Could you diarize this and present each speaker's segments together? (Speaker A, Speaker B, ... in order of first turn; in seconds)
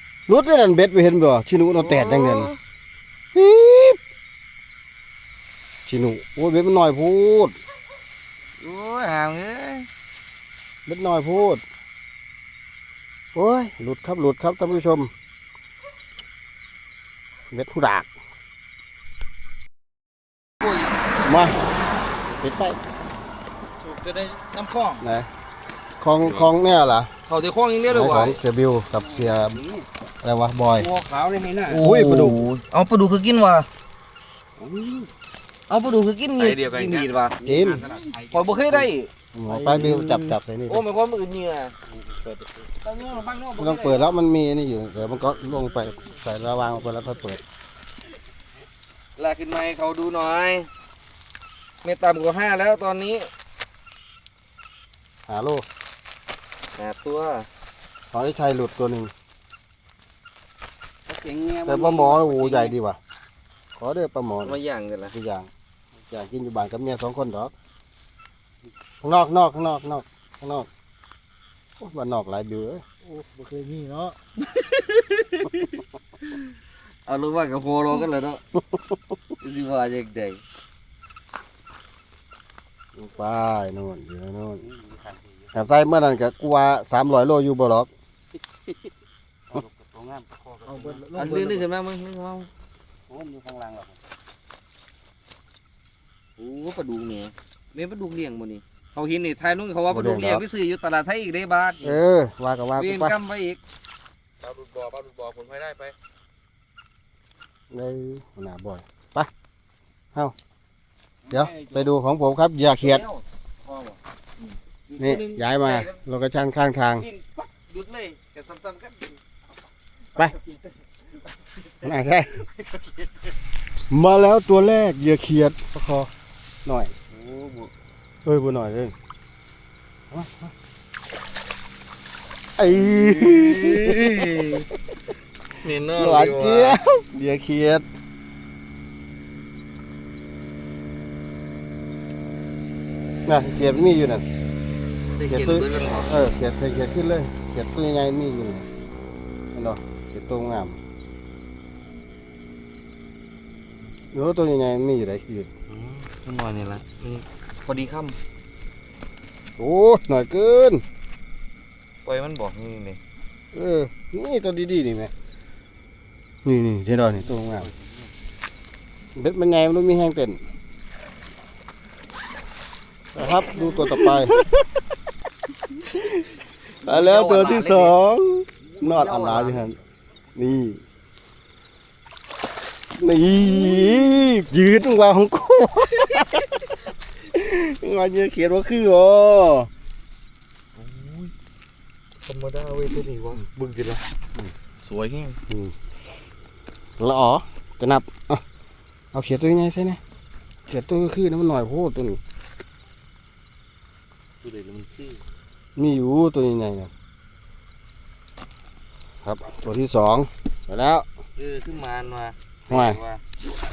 Speaker A: 0.3-2.5, 3.3-4.0, 5.9-7.5, 10.9-11.6, 13.3-15.1, 17.5-18.1, 21.2-21.6, 22.3-22.8, 25.0-25.3, 26.0-27.1, 27.9-29.6, 30.2-30.9, 31.6-32.5, 34.6-35.1, 37.4-37.9, 39.4-40.9, 43.6-47.4, 55.3-55.6, 58.1-59.1, 61.6-63.0, 63.8-65.5, 66.1-67.5, 69.0-70.7, 71.8-72.8, 83.0-84.7, 85.5-87.9, 99.9-100.4, 101.8-103.2, 107.7-109.3, 111.3-113.1, 115.0-117.1, 121.8-122.5, 123.9-126.1, 126.7-126.9, 128.2-128.9, 130.1-130.5, 132.6-134.3, 135.9-137.9, 143.2-144.2, 145.3-148.7, 149.5-150.8, 154.1-155.5, 159.6-160.8, 163.5-165.1, 166.4-167.7, 169.2-170.4, 173.1-174.4, 176.8-179.8, 180.3-180.8, 183.0-186.5, 187.3-189.7, 195.5-195.8, 197.0-198.4, 199.1-200.0, 200.7-202.2, 205.8-206.9, 209.2-211.1, 212.7-213.0
Speaker B: 1.7-2.6, 8.6-9.9, 27.2-28.4, 31.8-33.7, 35.7-39.1, 40.7-41.7, 42.8-44.2, 49.2-50.7, 51.8-53.3, 56.8-57.5, 64.4-65.1, 74.5-75.5, 77.1-78.4, 79.4-80.4, 91.2-92.5, 96.4-102.0, 102.8-103.6, 114.9-116.0, 117.0-119.2, 133.5-134.6, 135.6-136.8, 145.1-146.2, 155.7-158.2, 162.1-163.0, 176.8-178.0, 178.8-179.6, 192.2-194.0, 211.4-213.2
Speaker C: 23.9-24.4, 26.2-26.5, 28.9-29.9, 30.8-31.9, 36.4-38.8, 39.5-40.3, 41.9-42.5, 61.1-62.8, 84.6-85.5, 89.5-91.4, 93.1-94.0, 104.4-105.9, 111.3-111.9, 113.7-114.0, 127.1-127.7, 132.9-133.4, 167.1-168.1, 173.6-174.0, 190.8-191.3, 194.8-195.4, 204.4-205.2
Speaker D: 24.4-24.9, 73.0-74.2, 90.7-91.7